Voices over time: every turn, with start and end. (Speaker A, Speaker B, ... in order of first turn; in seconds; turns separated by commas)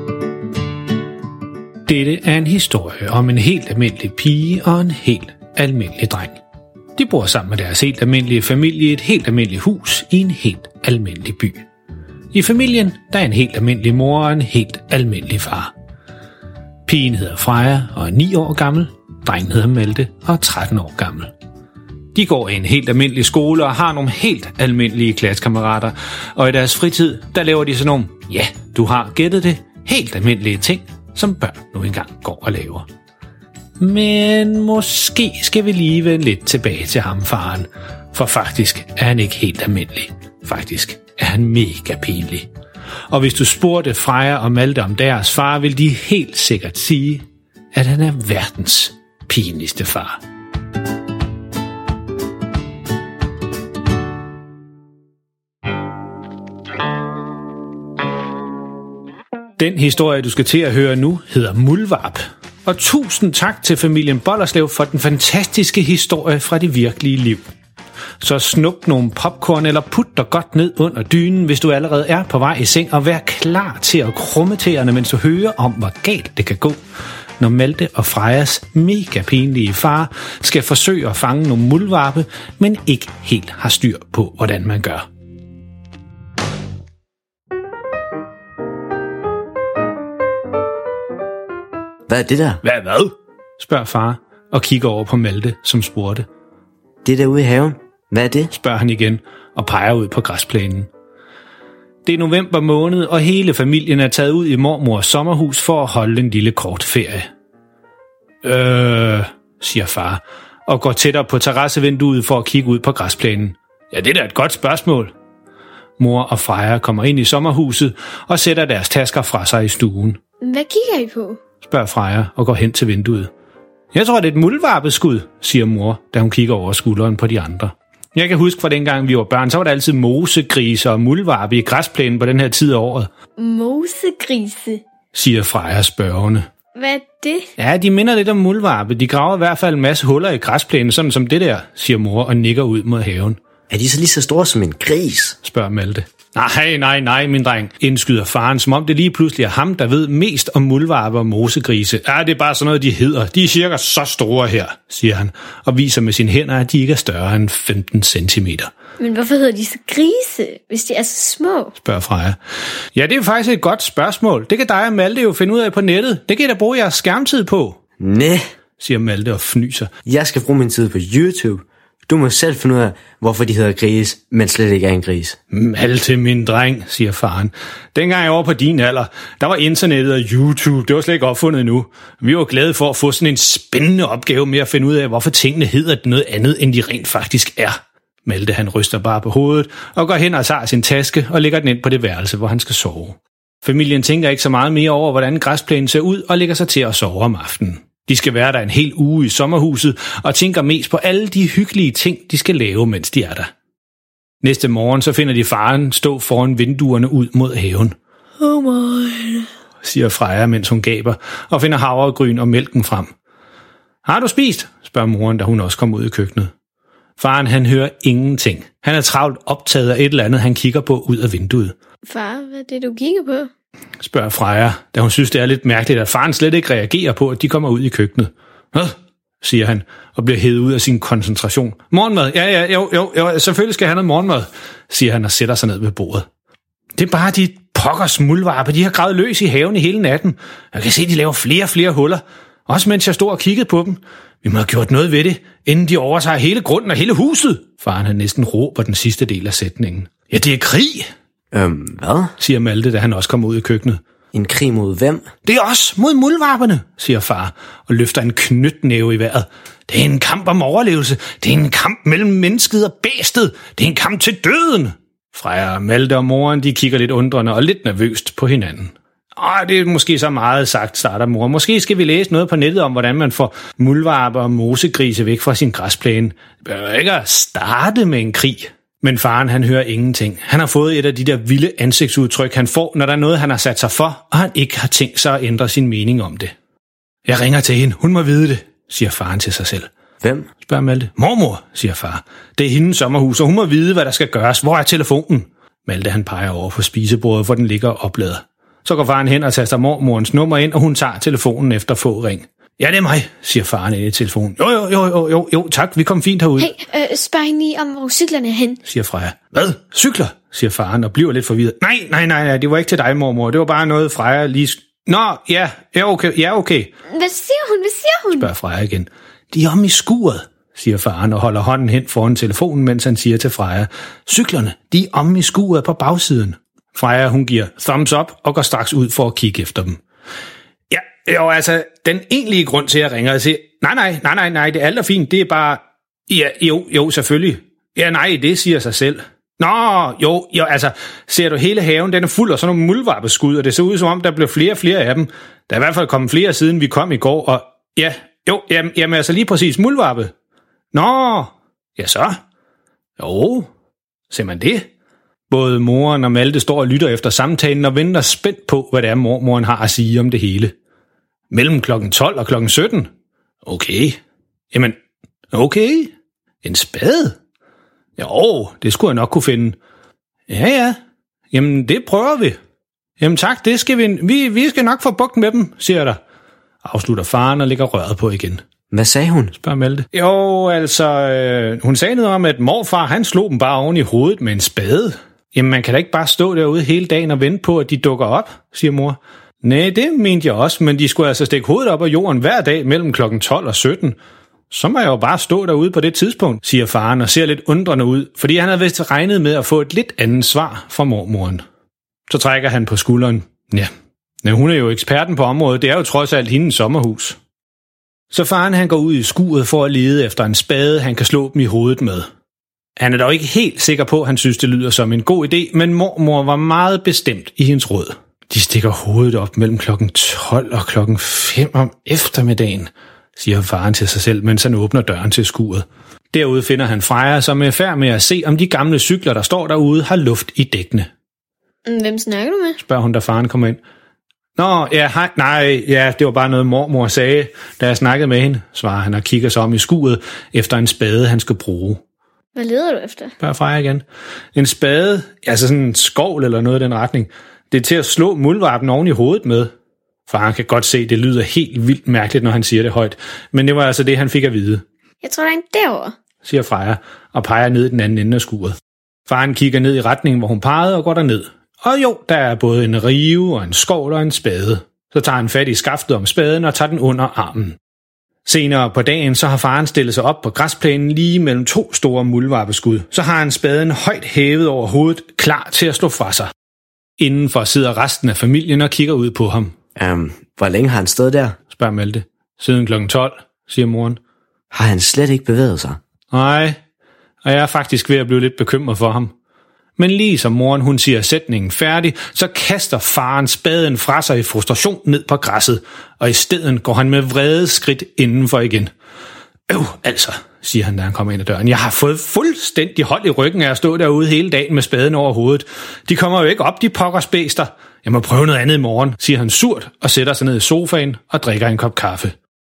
Speaker A: 1.9-6.4, Speaker A: 7.0-11.7, Speaker A: 12.3-15.7, Speaker A: 16.9-21.3, Speaker A: 22.1-32.9, Speaker A: 33.8-42.5, Speaker A: 43.1-50.2, Speaker A: 59.6-67.5, Speaker A: 68.2-76.8, Speaker A: 77.4-85.1, Speaker B: 92.1-92.6, Speaker A: 92.6-96.3, Speaker B: 97.0-98.5, Speaker A: 98.5-100.9, Speaker A: 102.0-107.3, Speaker A: 108.4-115.1, Speaker A: 116.0-120.2, Speaker C: 120.4-121.4, Speaker A: 121.6-123.3, Speaker A: 123.9-133.1, Speaker C: 133.4-134.8, Speaker A: 135.1-136.5, Speaker C: 136.8-137.5, Speaker A: 137.6-143.4, Speaker B: 143.7-145.4, Speaker A: 145.4-158.7, Speaker C: 159.0-161.7, Speaker A: 161.8-162.4, Speaker A: 162.9-167.8, Speaker B: 168.0-168.4, Speaker A: 168.8-169.9, Speaker B: 170.1-175.4, Speaker A: 175.5-203.5, Speaker A: 204.4-207.9, Speaker C: 208.4-209.5, Speaker A: 209.8-213.1, Speaker A: 214.1-216.5, Speaker A: 217.2-221.7, Speaker C: 222.1-223.5, Speaker A: 224.0-236.3, Speaker A: 237.0-251.1, Speaker B: 251.5-252.3, Speaker A: 252.4-254.0, Speaker B: 254.3-255.3, Speaker A: 255.4-286.5, Speaker A: 287.3-289.9, Speaker B: 290.2-290.5, Speaker A: 290.6-306.7, Speaker C: 306.6-308.8, Speaker A: 308.8-316.9, Speaker C: 317.1-318.5, Speaker A: 318.3-330.0, Speaker A: 330.9-350.3, Speaker A: 350.9-352.4, Speaker A: 353.2-353.7, Speaker A: 354.3-354.9, Speaker A: 355.5-360.7, Speaker A: 361.5-363.1, Speaker A: 363.6-364.2, Speaker A: 364.7-365.0, Speaker A: 365.5-366.1, Speaker A: 366.6-367.4, Speaker A: 368.2-369.8, Speaker A: 370.5-371.0, Speaker A: 371.5-372.6, Speaker A: 373.2-376.2, Speaker A: 376.8-378.6, Speaker B: 378.9-379.6, Speaker A: 379.6-394.2, Speaker A: 394.7-401.6, Speaker A: 402.3-403.9, Speaker A: 404.4-407.4, Speaker A: 408.3-412.3, Speaker A: 413.0-431.1, Speaker C: 431.9-432.8, Speaker A: 432.8-433.8, Speaker A: 434.6-442.0, Speaker C: 442.6-443.3, Speaker A: 443.4-444.0, Speaker A: 444.6-449.7, Speaker A: 450.3-454.8, Speaker C: 455.2-456.1, Speaker A: 456.4-458.8, Speaker A: 459.3-467.8, Speaker A: 468.5-476.5, Speaker A: 477.2-479.8, Speaker B: 480.0-481.6, Speaker A: 481.7-484.2, Speaker B: 484.7-486.0, Speaker A: 486.3-486.8, Speaker A: 487.4-489.3, Speaker A: 490.0-498.9, Speaker A: 499.7-512.4